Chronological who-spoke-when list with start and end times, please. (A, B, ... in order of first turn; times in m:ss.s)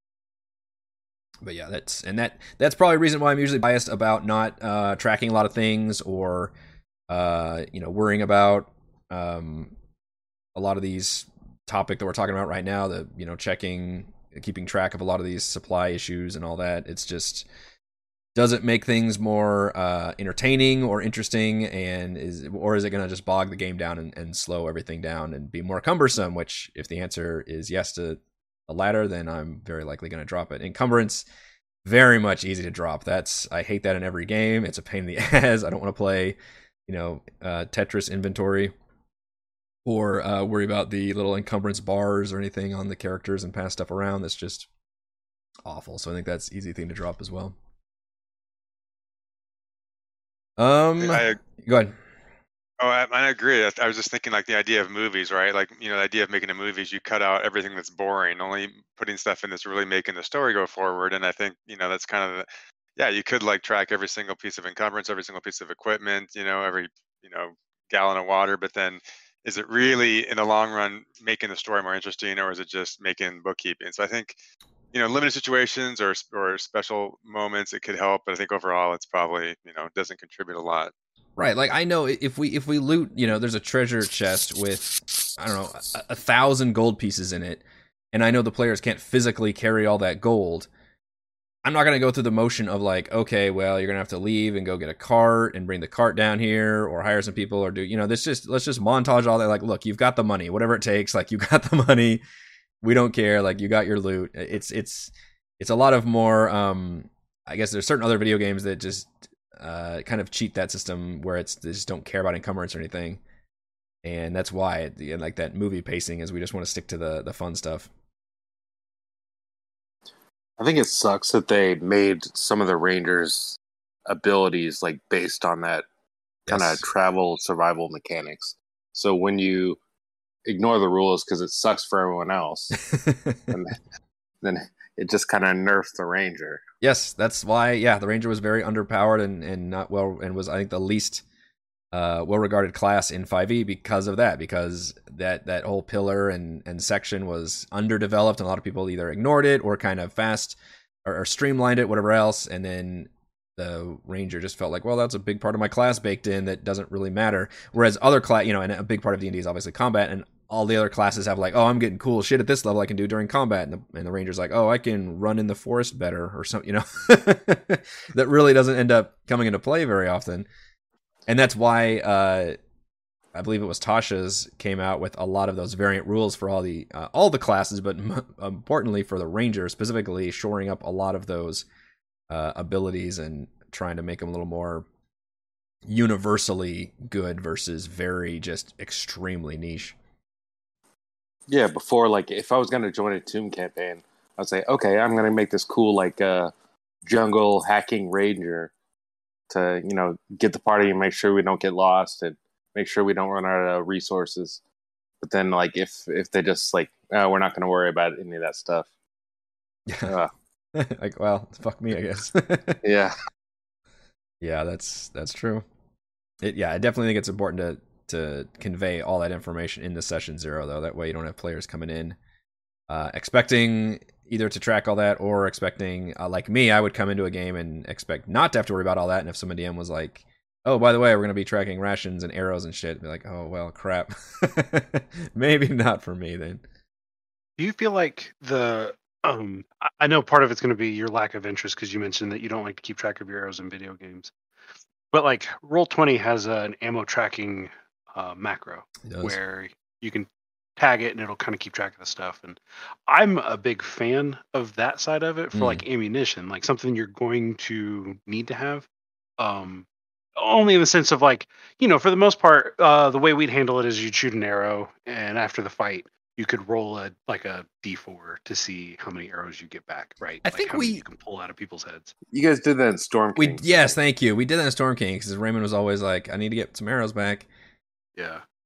0:01.4-0:06.5 A
0:07.1-0:09.7 A
0:10.6-0:17.5 A
0:18.4-0:31.3 A
0:31.8-0:38.7 A
0:39.8-0:44.7 A
0:45.7-0:47.6 A
0:50.6-0:52.0 A
0:51.0-0:51.4 B
0:52.8-1:14.4 B
1:14.9-1:20.9 B
1:21.4-1:30.7 A
1:31.6-1:42.2 A
1:42.8-1:53.2 A
1:54.0-1:57.9 A
2:00.6-2:05.9 C
2:06.5-2:06.8 A
2:06.5-2:09.8 C
2:10.5-2:12.8 C
2:12.8-2:13.5 A
2:13.5-2:13.8 C
2:14.4-2:16.6 C
2:16.8-2:21.2 A
2:21.9-2:50.5 A
2:51.3-2:52.6 A
2:53.3-3:01.6 A
3:02.3-3:04.9 A
3:05.9-3:10.0 A
3:11.5-3:16.5 C
3:17.0-3:18.7 C
3:19.5-3:24.6 C
3:25.2-3:28.9 C
3:29.9-3:30.2 A
3:30.8-3:32.8 A
3:32.8-3:33.2 C
3:34.4-3:35.6 A
3:36.4-3:42.2 A
3:42.9-3:56.6 A
3:57.6-4:04.3 D
4:05.1-4:18.9 D
4:09.0-4:09.4 A
4:15.5-4:15.8 A
4:19.4-4:32.1 D
4:30.4-4:31.0 A
4:32.3-4:33.9 C
4:33.4-4:37.5 A
4:38.2-4:38.4 D